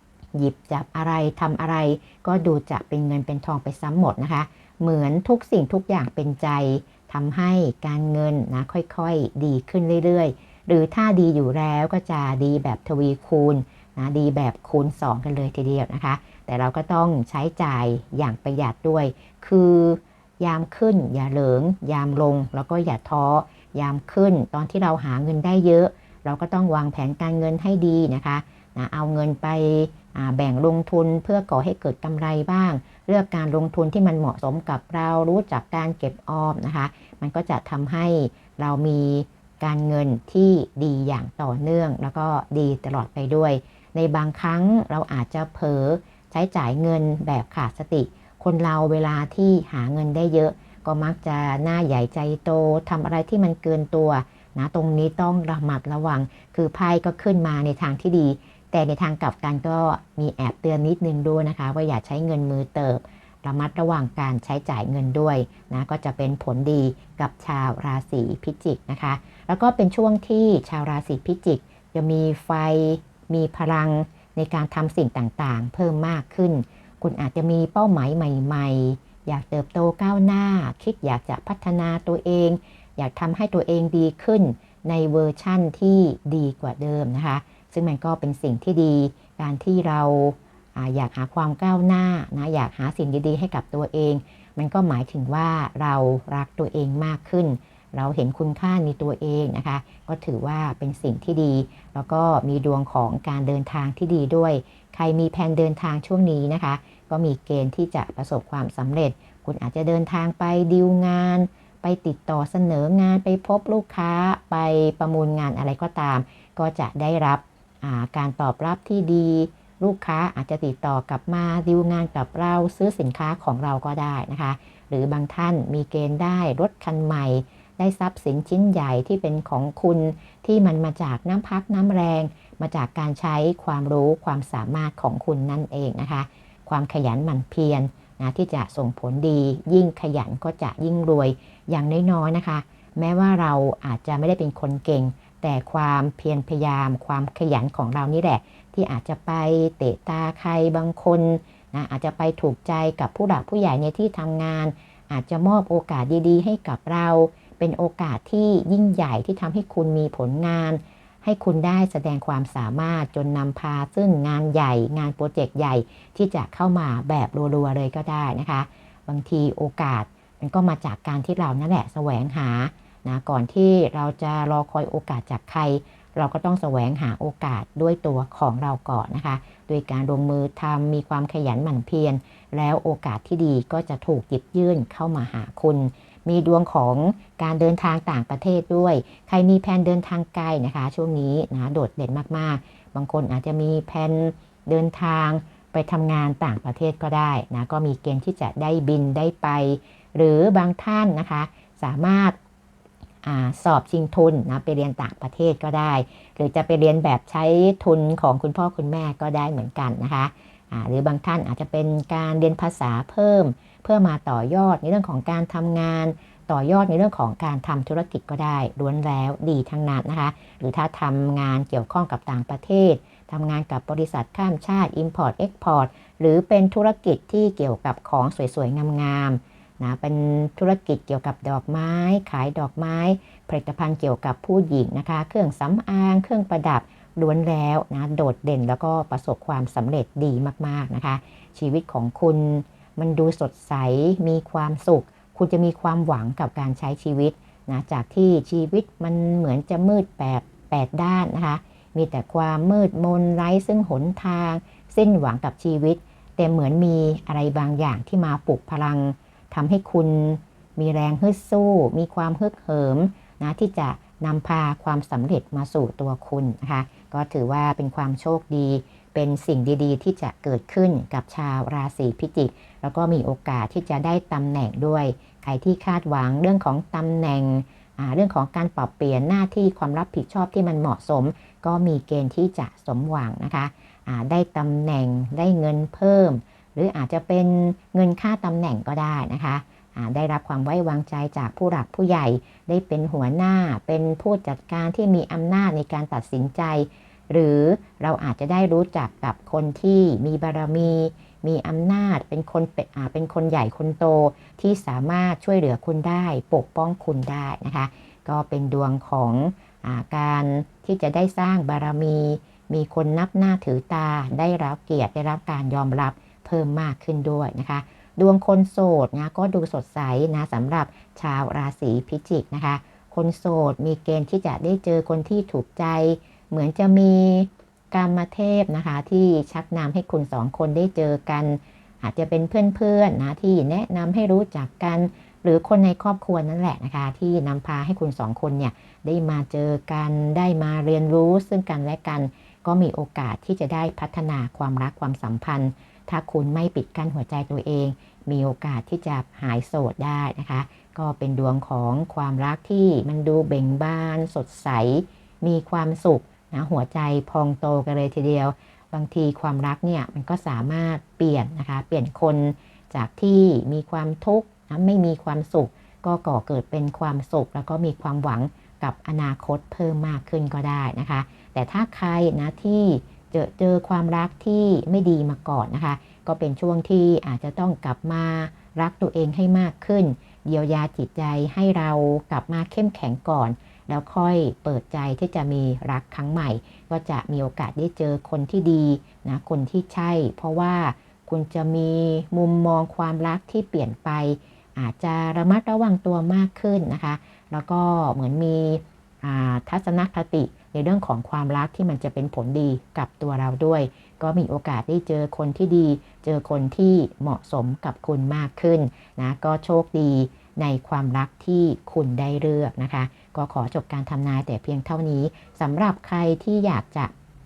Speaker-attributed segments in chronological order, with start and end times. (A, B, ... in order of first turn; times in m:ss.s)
0:00.3-3:22.4 A
3:23.2-6:57.1 A